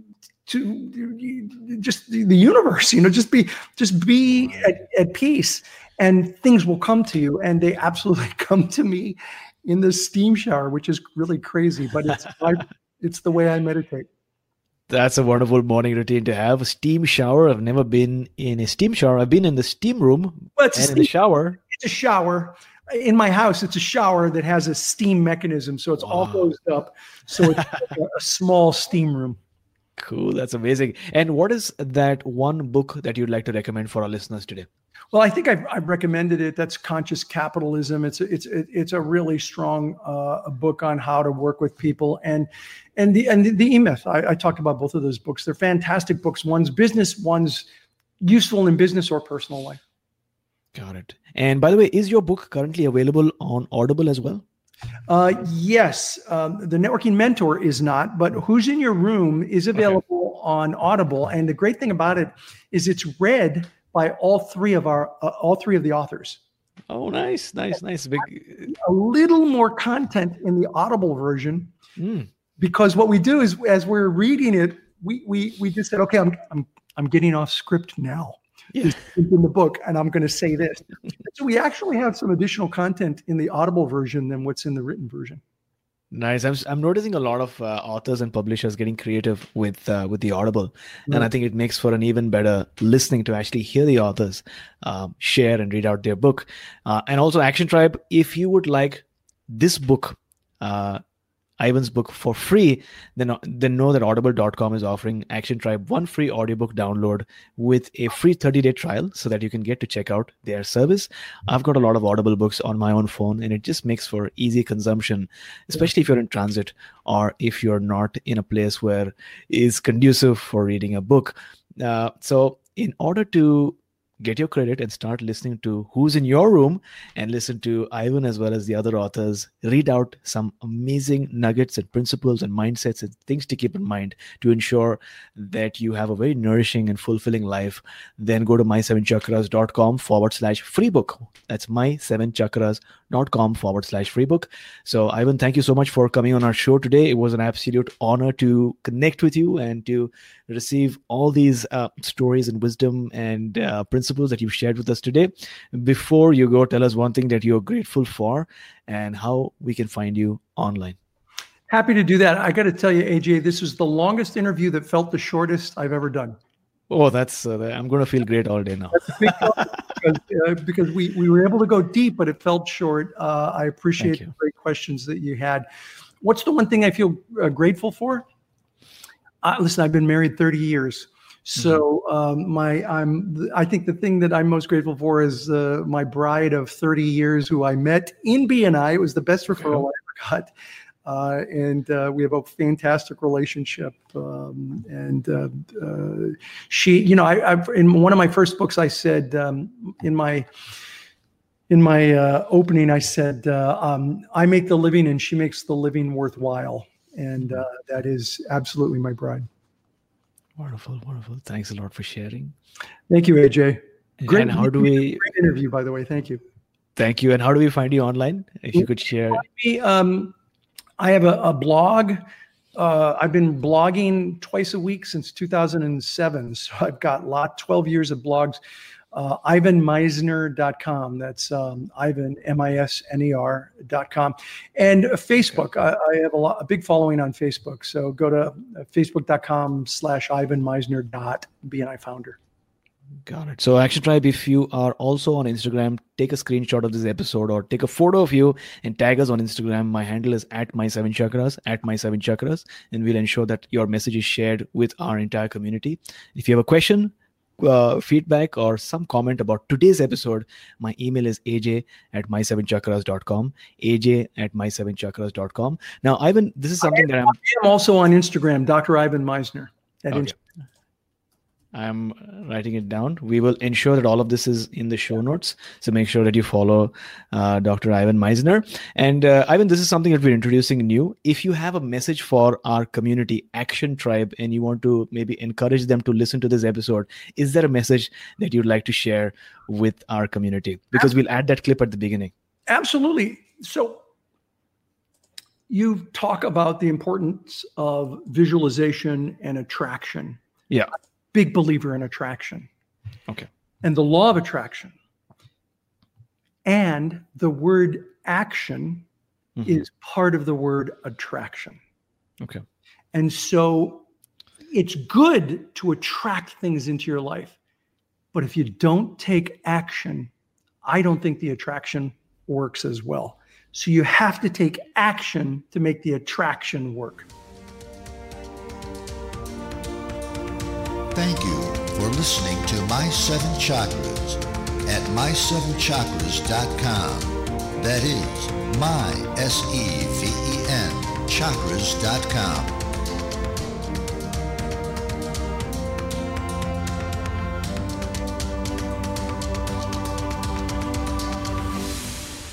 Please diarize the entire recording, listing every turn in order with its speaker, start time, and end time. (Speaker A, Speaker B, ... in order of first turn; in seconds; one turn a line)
Speaker A: 0.5-14.1
Speaker B: 14.9-21.6
Speaker A: 20.6-21.1
Speaker A: 21.7-29.4
Speaker B: 26.0-26.5
Speaker B: 27.4-27.9
Speaker B: 30.0-34.7
Speaker A: 35.1-47.7
Speaker A: 48.2-49.8
Speaker B: 50.8-54.4
Speaker A: 55.1-66.4
Speaker B: 59.8-60.0
Speaker B: 66.9-68.7
Speaker A: 68.6-71.7
Speaker B: 72.0-72.3
Speaker A: 72.6-85.4
Speaker B: 86.1-101.0
Speaker B: 101.6-161.0
Speaker A: 161.7-166.4
Speaker B: 166.9-169.7
Speaker A: 168.9-175.7
Speaker B: 174.0-174.3
Speaker A: 176.2-178.2
Speaker A: 179.4-190.5
Speaker B: 181.6-181.8
Speaker B: 189.6-189.8
Speaker A: 191.1-200.5
Speaker A: 201.7-209.5
Speaker B: 210.6-212.5
Speaker A: 213.1-216.4
Speaker B: 214.2-215.2
Speaker B: 217.0-219.4
Speaker A: 218.8-220.3
Speaker A: 221.0-222.2
Speaker A: 222.8-228.6
Speaker A: 229.1-242.4
Speaker B: 243.3-267.4
Speaker A: 266.8-270.4
Speaker B: 271.7-292.3
Speaker A: 292.7-294.0
Speaker A: 295.7-300.4
Speaker A: 301.3-302.7
Speaker A: 303.8-304.9
Speaker A: 306.6-309.1
Speaker B: 309.6-309.9
Speaker A: 309.6-311.8
Speaker A: 313.1-314.0
Speaker A: 314.7-317.6
Speaker A: 318.3-320.3
Speaker A: 320.8-327.3
Speaker C: 331.1-342.8